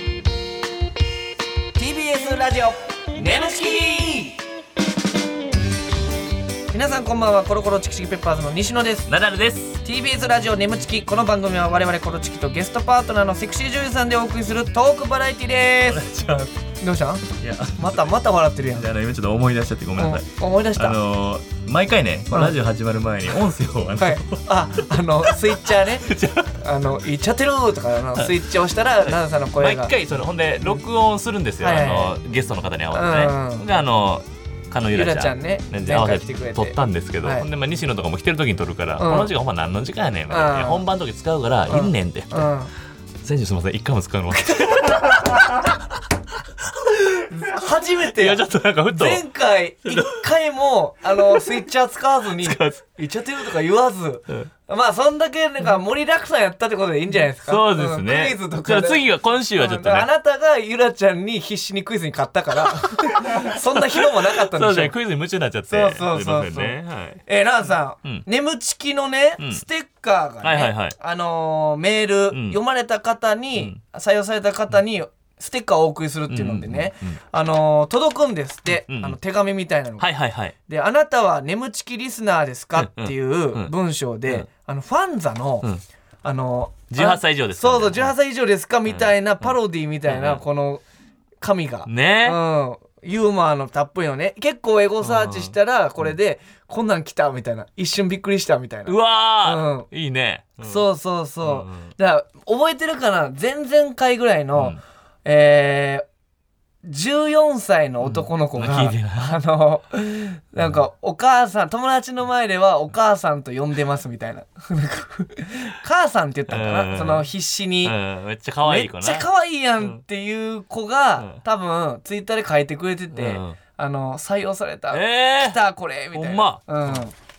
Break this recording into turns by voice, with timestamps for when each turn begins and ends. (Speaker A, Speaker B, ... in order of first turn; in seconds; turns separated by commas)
Speaker A: 1.8-4.4, Speaker A: 6.7-9.1, Speaker B: 9.1-9.8, Speaker A: 9.8-18.9, Speaker B: 15.8-16.5, Speaker B: 17.4-17.9, Speaker B: 18.7-24.4, Speaker A: 20.0-21.0, Speaker A: 24.0-29.9, Speaker B: 25.2-26.6, Speaker B: 29.0-42.5, Speaker A: 31.6-32.1, Speaker A: 32.9-33.6, Speaker A: 34.9-37.5, Speaker A: 39.0-39.3, Speaker A: 40.3-40.8, Speaker A: 41.7-42.7, Speaker B: 43.2-45.7, Speaker A: 44.6-45.2, Speaker A: 47.3-59.0, Speaker B: 48.0-49.2, Speaker B: 49.8-50.2, Speaker B: 51.2-51.6, Speaker B: 52.4-52.8, Speaker B: 57.4-60.1, Speaker A: 59.6-64.9, Speaker B: 63.2-67.2, Speaker A: 65.7-80.1, Speaker B: 69.4-69.6, Speaker B: 70.4-70.9, Speaker B: 72.3-72.6, Speaker B: 73.5-73.8, Speaker B: 76.3-77.2, Speaker B: 78.9-79.2, Speaker B: 80.0-80.5, Speaker A: 80.7-85.7, Speaker B: 82.8-83.7, Speaker A: 86.2-90.8, Speaker B: 86.9-88.1, Speaker B: 88.9-89.5, Speaker B: 90.0-90.4, Speaker A: 91.4-99.9, Speaker B: 91.8-92.4, Speaker B: 95.0-95.5, Speaker B: 98.8-100.9, Speaker A: 100.6-106.0, Speaker B: 101.4-101.9, Speaker B: 104.5-104.8, Speaker A: 106.8-117.9, Speaker B: 108.0-109.3, Speaker B: 116.5-117.3, Speaker B: 117.8-120.0, Speaker A: 118.6-127.1, Speaker B: 121.2-121.4, Speaker B: 123.1-123.6, Speaker B: 124.9-125.6, Speaker B: 126.1-127.0